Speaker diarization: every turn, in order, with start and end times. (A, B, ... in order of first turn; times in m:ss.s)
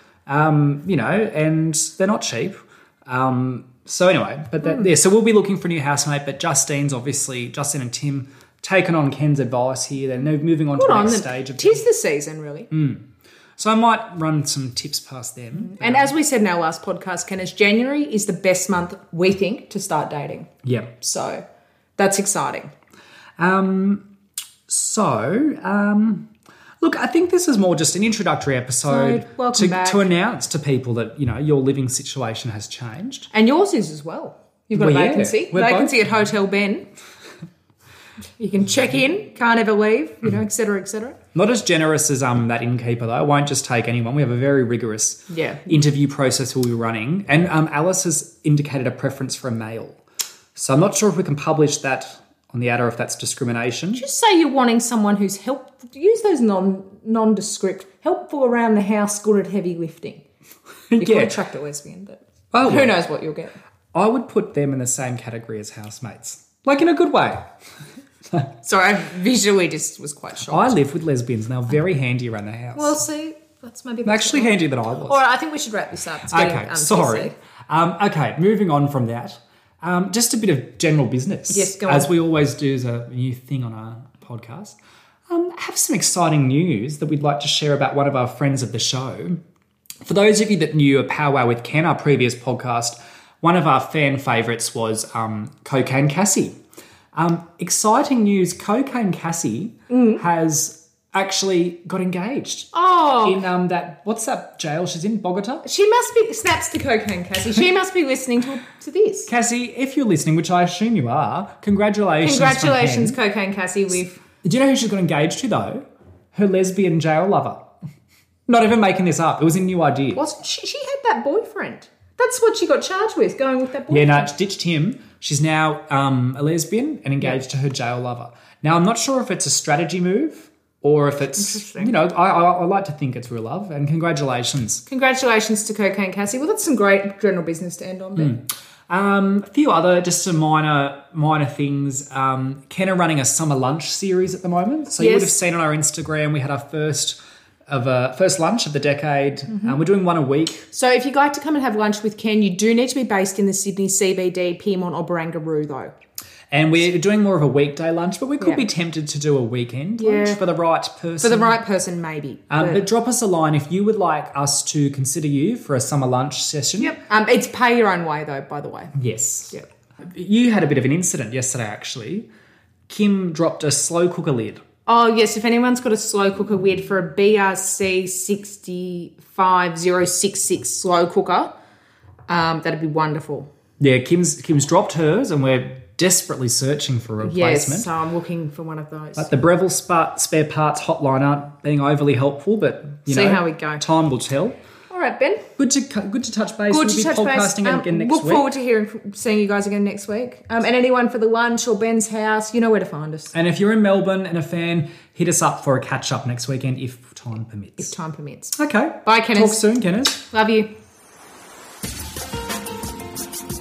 0:00.3-0:11.8 A
0:10.7-0:12.7 B
0:12.7-0:13.0 A
0:13.6-0:16.1 A
0:15.5-0:21.4 B
0:20.6-0:20.9 A
0:22.0-0:22.7 B
0:23.4-0:24.0 A
0:24.7-0:26.3 A
0:26.8-0:33.3 A
0:28.9-0:30.1 B
0:33.3-0:36.9 B
0:34.7-0:36.1 A
0:38.4-0:41.2 B
0:41.3-0:50.0 A
0:45.3-0:45.7 B
0:50.6-0:54.0 A
0:53.9-1:00.2 B
1:00.9-1:01.4 A
1:01.0-1:03.6 B
1:02.5-1:03.0 A
1:03.9-1:07.5 A
1:08.6-1:10.8 B
1:10.4-1:13.0 A
1:12.8-1:17.4 B
1:14.0-1:15.2 A
1:16.3-1:24.8 A
1:21.5-1:22.1 B
1:25.3-1:29.4 A
1:30.0-1:36.6 A
1:37.1-1:42.7 A
1:39.9-1:40.2 B
1:42.7-1:43.4 B
1:43.2-1:45.6 A
1:45.6-1:49.3 B
1:49.3-1:53.2 A
1:52.2-1:54.2 B
1:54.4-1:55.8 A
1:56.3-1:57.6 A
1:58.5-2:00.2 A
2:00.1-2:04.3 B
2:03.9-2:14.8 A
2:11.4-2:12.0 B
2:14.9-2:18.4 B
2:18.2-2:30.6 A
2:25.0-2:25.4 B
2:29.5-2:29.8 B
2:30.7-2:35.9 B
2:36.5-2:41.6 A
2:38.4-2:38.6 B
2:40.0-2:40.4 B
2:41.2-2:42.8 B
2:42.5-2:47.0 A
2:46.8-2:48.9 B
2:49.0-2:52.3 A
2:52.9-2:54.6 A
2:54.9-3:01.6 B
3:02.3-3:03.5 B
3:03.8-3:07.9 A
3:07.2-3:09.3 B
3:09.2-3:14.6 A
3:13.1-3:13.8 B
3:14.9-3:15.5 B
3:15.6-3:18.5 A
3:16.7-3:23.3 B
3:23.3-3:28.0 A
3:27.8-3:29.6 B
3:28.6-3:30.2 A
3:30.3-3:30.7 B